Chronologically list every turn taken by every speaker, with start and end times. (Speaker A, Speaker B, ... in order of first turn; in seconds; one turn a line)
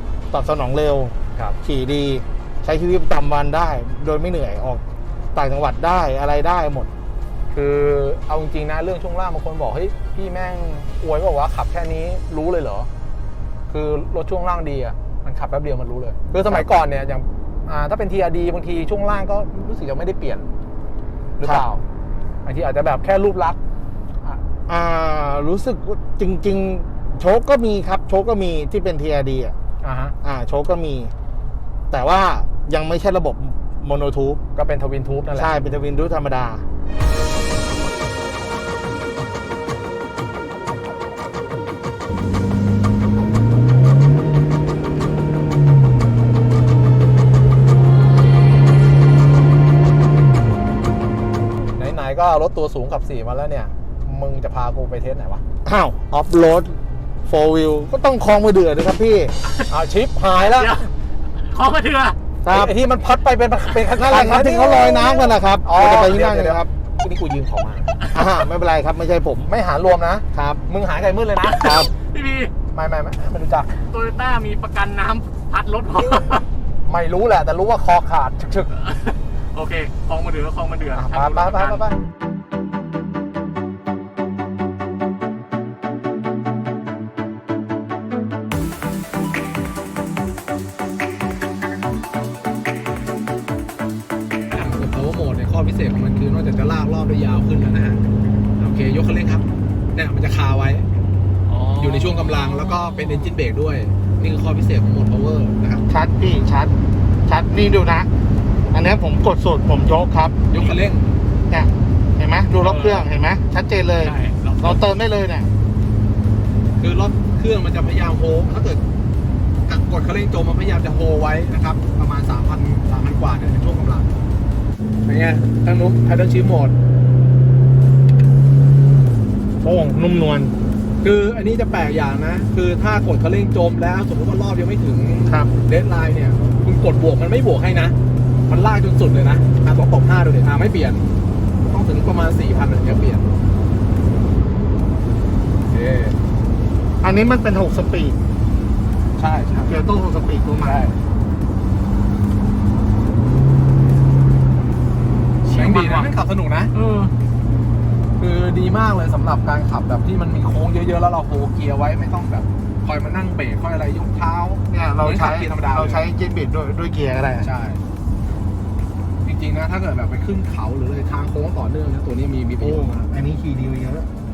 Speaker A: 0.3-4.8
Speaker A: 5.3-6.9
Speaker B: 7.5-12.9
Speaker B: 13.7-20.5
Speaker B: 21.4-21.8
Speaker B: 22.4-23.6
Speaker A: 24.7-29.5
Speaker B: 29.8-30.1
Speaker A: 30.2-31.1
Speaker A: 31.9-34.4
Speaker B: 34.5-35.5
Speaker A: 35.3-36.6
Speaker B: 51.8-55.4
Speaker A: 55.6-59.3
Speaker B: 59.7-60.9
Speaker C: 60.4-62.2
Speaker A: 62.4-62.7
Speaker B: 62.5-67.9
Speaker A: 64.0-66.7
Speaker A: 68.1-69.5
Speaker B: 69.5-71.8
Speaker A: 70.3-70.6
Speaker C: 71.4-72.5
Speaker A: 71.5-71.9
Speaker B: 72.7-73.8
Speaker C: 73.9-76.5
Speaker B: 76.8-78.8
Speaker C: 78.7-81.8
Speaker B: 80.9-82.0
Speaker B: 94.5-98.0
Speaker B: 98.6-100.9
Speaker C: 101.5-102.6
Speaker B: 101.8-105.9
Speaker A: 105.9-106.7
Speaker A: 107.3-108.1
Speaker A: 108.7-110.3
Speaker B: 110.5-111.1
Speaker A: 111.5-115.5
Speaker B: 112.5-113.0
Speaker C: 114.0-114.8
Speaker B: 116.8-118.8
Speaker B: 119.7-124.1
Speaker B: 125.0-126.8
Speaker A: 129.6-130.5
Speaker B: 131.0-137.9
Speaker B: 138.5-141.1
Speaker B: 141.7-143.3
Speaker B: 145.7-146.2
Speaker A: 147.0-148.2
Speaker B: 149.2-149.8
Speaker A: 149.7-150.9
Speaker B: 150.6-151.0
Speaker C: 155.4-156.1
Speaker B: 155.5-156.7
Speaker C: 156.7-157.1
Speaker B: 158.2-166.0
Speaker A: 164.7-167.5
Speaker B: 167.4-167.8
Speaker B: 169.2-173.1
Speaker A: 172.6-174.1